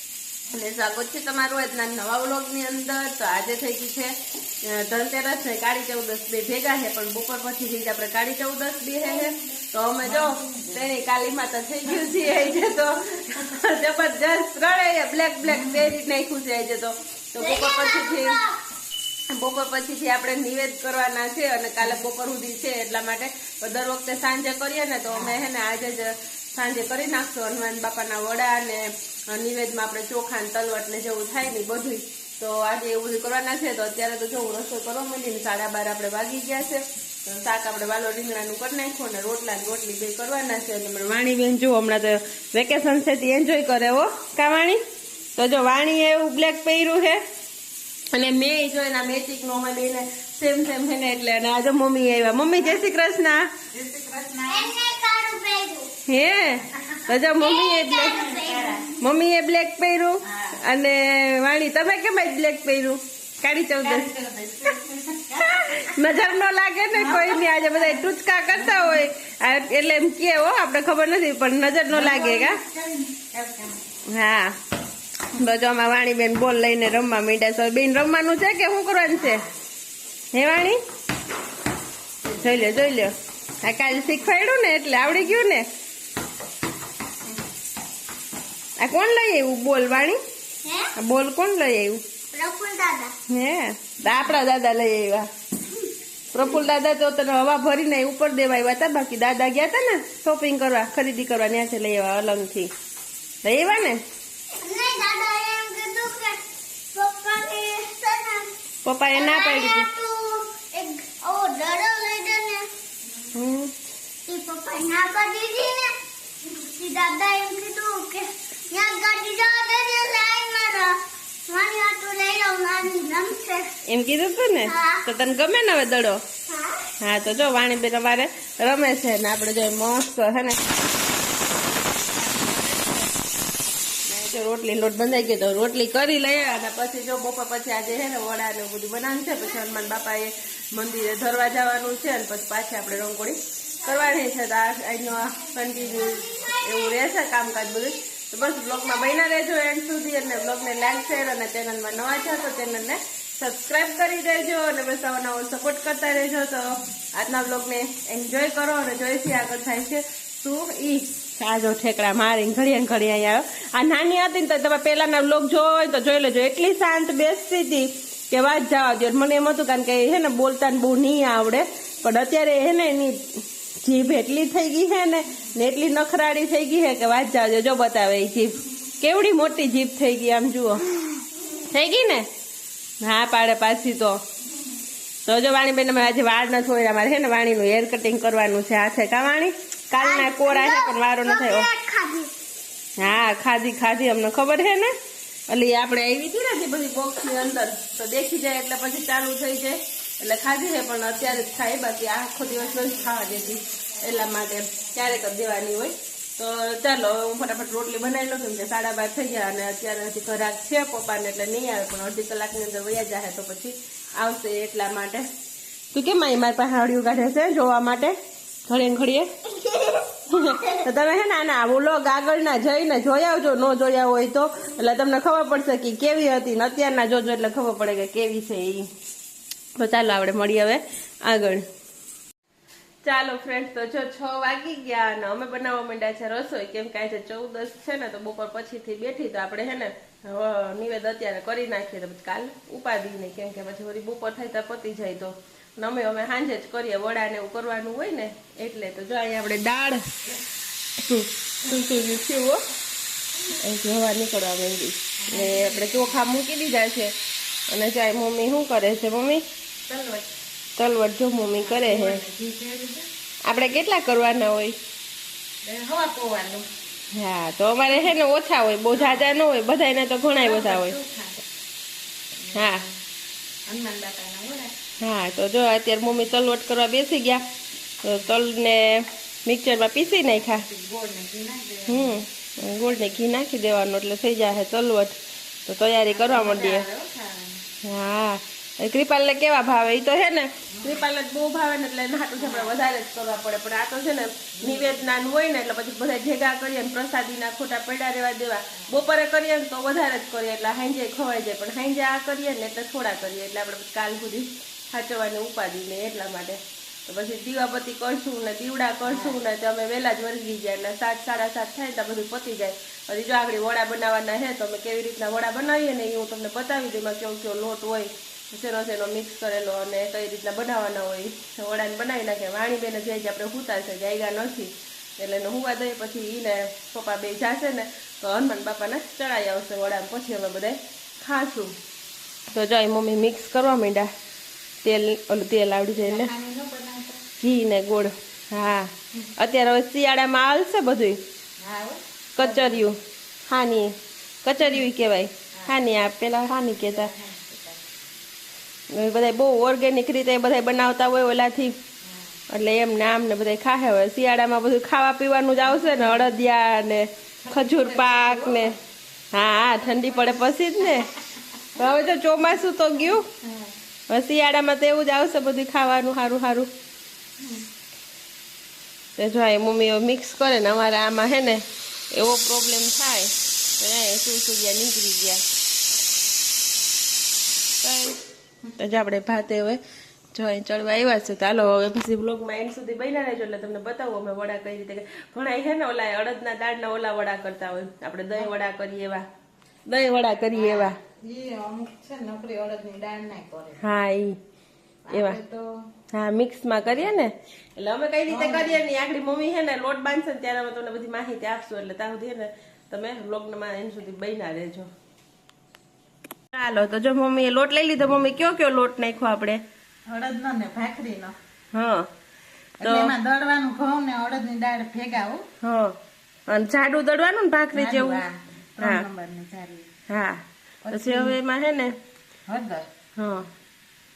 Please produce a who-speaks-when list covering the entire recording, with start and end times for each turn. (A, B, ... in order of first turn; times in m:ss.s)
0:00.5-0:18.4 A
0:10.0-0:10.8 B
0:12.0-0:12.4 B
0:15.4-0:15.9 B
0:17.4-0:18.6 C
0:19.3-0:44.8 A
0:25.1-0:25.4 B
0:45.4-0:47.2 A
0:48.1-0:53.5 A
0:53.7-0:54.7 B
0:54.5-0:55.9 C
0:56.1-0:58.3 A
0:57.4-0:59.0 C
0:58.2-0:58.8 B
0:59.0-1:04.1 A
1:00.2-1:00.5 B
1:03.8-1:06.0 B
1:05.4-1:12.6 A
1:06.9-1:09.0 B
1:11.9-1:13.8 B
1:14.1-1:14.6 A
1:15.3-1:19.5 A
1:20.3-1:20.8 A
1:22.3-1:25.6 A
1:28.8-1:30.2 A
1:30.6-1:30.9 C
1:31.0-1:32.0 A
1:32.3-1:33.1 C
1:33.3-1:35.3 A
1:36.3-1:42.7 A
1:43.4-1:44.0 A
1:44.6-1:46.4 C
1:46.9-1:48.5 C
1:48.8-1:49.9 A
1:49.1-1:52.7 C
1:53.3-1:53.7 A
1:54.3-2:03.7 C
2:03.9-2:06.2 A
2:04.6-2:05.0 C
2:06.5-2:06.8 C
2:07.0-2:10.7 A
2:12.0-2:13.0 B
2:14.1-3:00.8 A
3:01.7-3:02.3 A
3:03.0-3:04.2 A
3:05.2-3:11.7 A
3:10.0-3:12.3 C
3:13.0-3:14.9 A
3:15.5-3:35.3 A
3:35.9-3:38.2 A
3:38.7-3:39.3 A
3:39.6-3:40.1 C
3:40.3-3:48.9 A
3:49.8-3:51.6 A
3:53.0-4:10.0 A
4:11.0-4:12.6 A
4:13.6-4:17.1 A
4:15.2-4:16.2 B
4:17.7-4:19.4 A
4:19.9-4:20.3 B
4:20.8-4:22.2 A
4:21.6-4:23.0 B
4:23.5-4:24.8 A
4:25.6-4:26.7 B
4:27.1-4:31.0 A
4:28.9-4:29.3 B
4:30.4-4:31.4 B
4:32.4-4:32.9 B
4:32.5-4:32.8 A
4:33.7-4:34.7 B
4:35.0-4:37.4 A
4:38.0-4:40.7 A
4:40.2-4:42.2 B
4:41.9-4:45.2 A
4:45.7-4:46.9 A
4:46.1-4:47.6 B
4:47.8-5:31.8 A
4:50.7-4:51.1 B
4:52.4-4:52.7 B
4:54.6-4:55.0 B
5:09.1-5:09.4 B
5:32.5-5:34.1 A
5:34.8-5:36.3 A
5:36.0-5:37.2 B
5:37.4-5:41.2 A
5:41.6-5:42.9 B
5:42.4-5:47.1 A
5:46.7-5:47.8 B
5:48.9-5:51.8 A
5:52.0-5:52.3 B
5:52.5-5:58.8 A
5:55.8-5:56.3 B
5:57.4-5:58.8 B
5:59.3-6:01.1 A
5:59.8-6:01.1 B
6:01.8-6:03.2 A
6:04.1-6:06.7 A
6:07.4-6:07.6 B
6:09.2-6:15.4 A
6:17.8-6:18.2 A
6:18.8-6:19.8 A
6:20.3-6:29.2 A
6:29.9-6:31.0 A
6:30.5-6:33.8 B
6:33.8-6:34.4 A
6:35.1-6:35.7 B
6:35.1-6:35.4 A
6:36.1-6:44.9 A
6:38.3-6:38.8 B
6:46.5-6:49.6 A
6:50.1-6:51.3 B
6:51.7-6:52.1 A
6:52.8-6:55.4 B
6:52.8-6:53.2 A
6:55.6-6:56.0 A
6:56.5-6:58.2 A
6:57.7-6:59.9 B
6:58.8-6:59.0 A
7:00.1-7:01.9 A
7:00.8-7:01.4 B
7:02.5-7:02.9 B
7:03.2-7:03.5 A